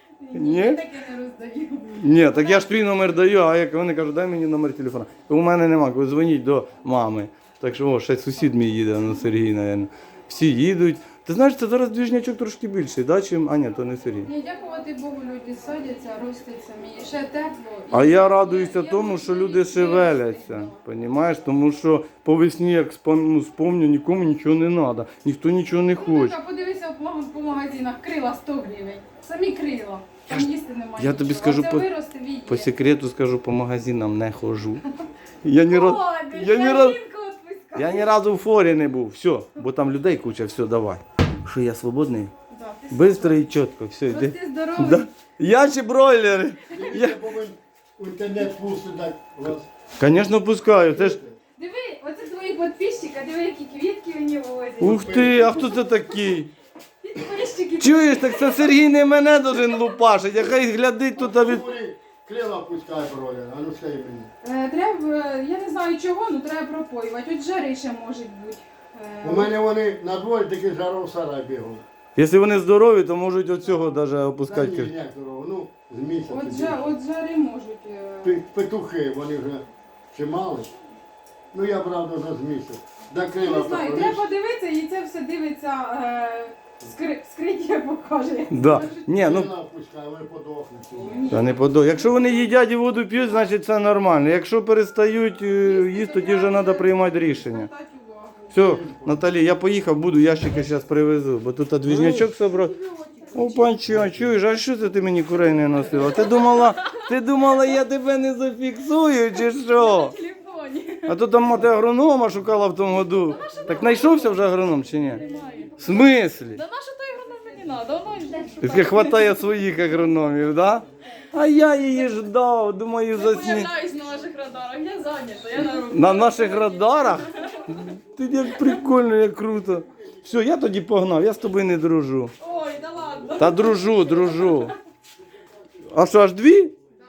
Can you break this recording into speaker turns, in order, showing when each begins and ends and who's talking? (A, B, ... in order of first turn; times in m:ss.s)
0:00.2-0:02.4 A
0:00.3-0:00.8 B
0:01.9-0:14.3 B
0:14.2-0:20.7 A
0:17.9-0:26.4 B
0:26.0-0:32.7 A
0:30.3-0:31.9 B
0:32.5-0:34.8 B
0:35.4-0:37.0 B
0:35.6-0:38.1 A
0:37.8-0:42.3 B
0:42.5-0:43.4 A
0:42.9-0:47.2 B
0:44.1-0:45.1 A
0:46.7-0:49.7 C
0:50.0-0:51.2 B
0:51.6-0:55.0 A
0:54.8-0:56.5 B
0:55.0-0:55.7 C
0:57.0-0:58.8 A
0:57.8-1:01.8 B
1:01.2-1:04.3 C
1:04.4-1:09.5 A
1:09.2-1:11.8 C
1:12.2-1:14.9 B
1:14.5-1:16.9 C
1:16.3-1:18.4 A
1:18.2-1:20.7 C
1:21.5-1:24.2 C
1:23.4-1:29.0 A
1:28.5-1:29.5 B
1:29.1-1:31.3 C
1:31.0-1:32.1 A
1:31.3-1:37.7 B
1:35.6-1:38.5 A
1:38.5-1:42.8 B
1:42.7-1:43.7 A
1:43.3-1:50.1 B
1:49.6-1:51.2 A
1:51.0-1:55.2 B
1:53.2-1:54.4 A
1:55.1-1:55.8 A
1:55.8-1:56.6 B
1:56.5-1:59.3 A
1:58.6-2:03.7 B
2:03.1-2:07.5 A
2:05.6-2:12.3 B
2:12.4-2:14.7 A
2:13.4-2:14.8 B
2:15.9-2:16.8 B